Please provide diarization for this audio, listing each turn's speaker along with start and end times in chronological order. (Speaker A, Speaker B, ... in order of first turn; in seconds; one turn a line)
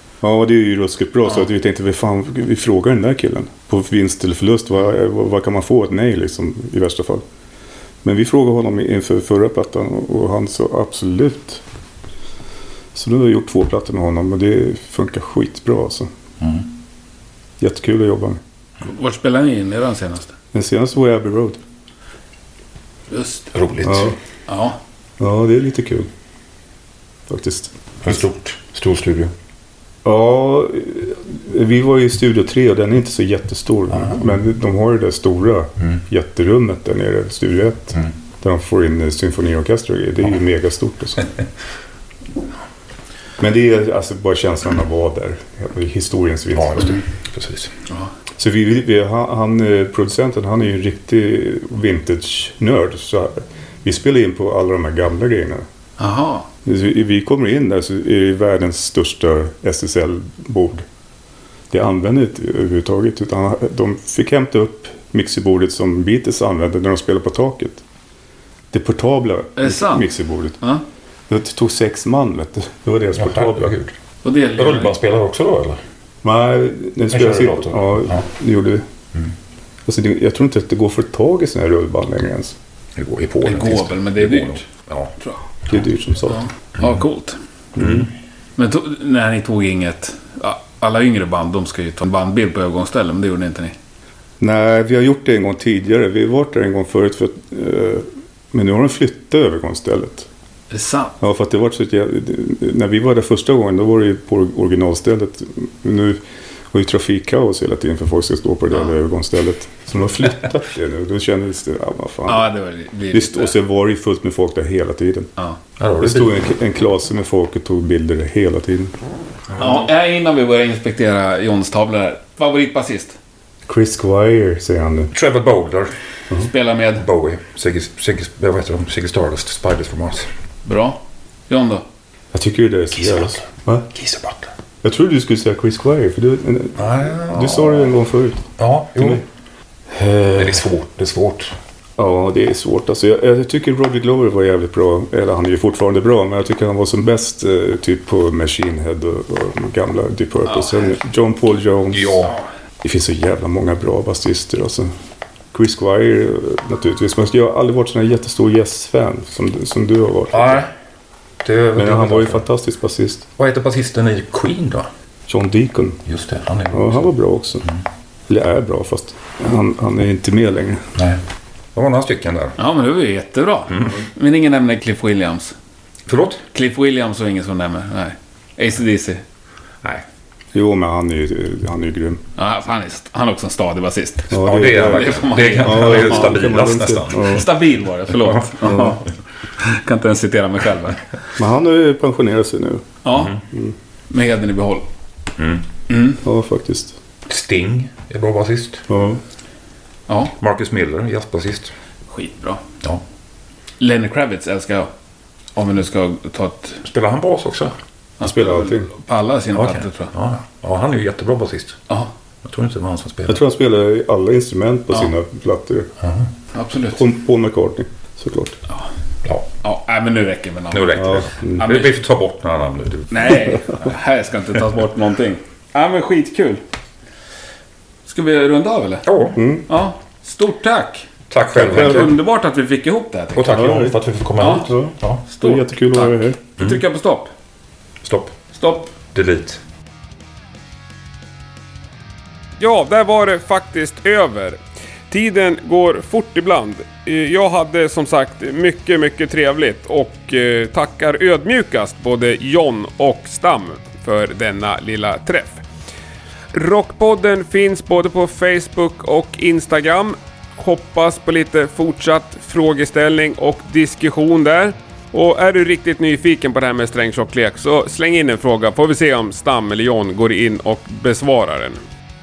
Speaker A: 0.2-7.2
Speaker A: 8.0-11.6
Speaker A: 12.9-16.1
Speaker A: 17.6-18.4
Speaker B: 18.8-20.3
Speaker A: 20.5-21.6
Speaker B: 23.1-23.5
Speaker C: 23.5-24.1
Speaker A: 23.8-24.2
Speaker B: 24.5-24.8
Speaker A: 25.2-26.1
Speaker A: 27.3-27.7
Speaker C: 28.0-29.3
Speaker A: 30.1-41.3
Speaker A: 43.4-47.0
Speaker C: 46.5-47.7
Speaker A: 48.4-55.7
Speaker B: 56.0-56.5
Speaker A: 56.6-60.9
Speaker A: 61.7-67.8
Speaker A: 68.7-70.6
Speaker B: 69.6-70.1
Speaker A: 71.3-73.8
Speaker C: 73.2-73.9
Speaker B: 74.2-75.0
Speaker C: 74.5-75.8
Speaker A: 76.2-78.9
Speaker C: 77.1-78.2
Speaker A: 79.9-82.6
Speaker C: 83.0-85.1
Speaker B: 83.4-84.6
Speaker A: 85.7-86.5
Speaker B: 86.3-87.4
Speaker A: 87.8-88.1
Speaker C: 87.8-88.1
Speaker B: 88.6-93.8
Speaker A: 94.4-100.3
Speaker B: 100.7-101.2
Speaker A: 101.2-106.2
Speaker A: 106.7-112.5
Speaker B: 112.3-113.5
Speaker A: 113.1-115.3
Speaker C: 115.8-116.4
Speaker A: 116.0-118.9
Speaker C: 119.5-119.8
Speaker B: 119.6-123.2
Speaker A: 123.7-125.1
Speaker C: 125.1-125.9
Speaker B: 126.5-127.0
Speaker C: 127.0-130.3
Speaker B: 130.7-131.8
Speaker A: 132.3-133.9
Speaker C: 133.0-134.5
Speaker A: 134.8-138.5
Speaker C: 136.8-137.9
Speaker C: 138.6-139.2
Speaker A: 139.0-139.2
Speaker A: 139.9-140.6
Speaker C: 140.3-141.6
Speaker A: 142.0-152.3
Speaker C: 151.9-152.3
Speaker A: 152.8-154.9
Speaker A: 155.5-160.6
Speaker C: 160.3-160.7
Speaker C: 161.4-162.4
Speaker A: 161.8-163.3
Speaker C: 163.4-164.9
Speaker A: 165.3-166.0
Speaker C: 166.1-167.1
Speaker A: 166.7-167.7
Speaker A: 168.3-170.8
Speaker C: 171.8-172.6
Speaker B: 172.6-175.6
Speaker C: 173.7-174.0
Speaker C: 176.1-176.4
Speaker B: 176.5-179.2
Speaker A: 180.5-182.2
Speaker B: 182.4-186.3
Speaker A: 184.3-187.4
Speaker C: 184.4-187.4
Speaker B: 187.3-189.1
Speaker C: 188.1-188.5
Speaker A: 188.6-189.0
Speaker B: 189.6-191.0
Speaker A: 191.4-192.8
Speaker B: 193.0-193.4
Speaker B: 194.1-194.9
Speaker C: 195.4-195.7
Speaker B: 195.9-196.2
Speaker A: 196.2-197.0
Speaker C: 197.3-198.8
Speaker A: 198.9-199.2
Speaker B: 200.1-200.3
Speaker C: 200.4-201.7
Speaker B: 202.1-202.6
Speaker B: 203.8-204.9
Speaker B: 205.6-206.8
Speaker C: 206.8-207.8
Speaker A: 208.2-208.9
Speaker B: 208.2-210.1
Speaker C: 209.5-211.8
Speaker C: 212.4-213.4
Speaker A: 213.3-215.9
Speaker C: 216.0-216.3
Speaker B: 216.5-217.0
Speaker A: 216.9-218.6
Speaker B: 219.6-221.9
Speaker C: 220.7-223.5
Speaker A: 221.0-221.6
Speaker B: 223.1-226.6
Speaker B: 228.1-229.1
Speaker C: 229.1-229.4
Speaker A: 229.4-229.7
Speaker B: 229.7-233.5
Speaker C: 231.3-232.2
Speaker A: 231.6-232.1
Speaker C: 233.3-235.2
Speaker A: 233.5-236.4
Speaker B: 234.4-234.7
Speaker B: 235.3-237.3
Speaker C: 238.0-238.4
Speaker B: 238.5-238.9
Speaker C: 239.1-239.6
Speaker D: 242.6-244.6
Speaker D: 245.1-255.6
Speaker D: 256.5-271.8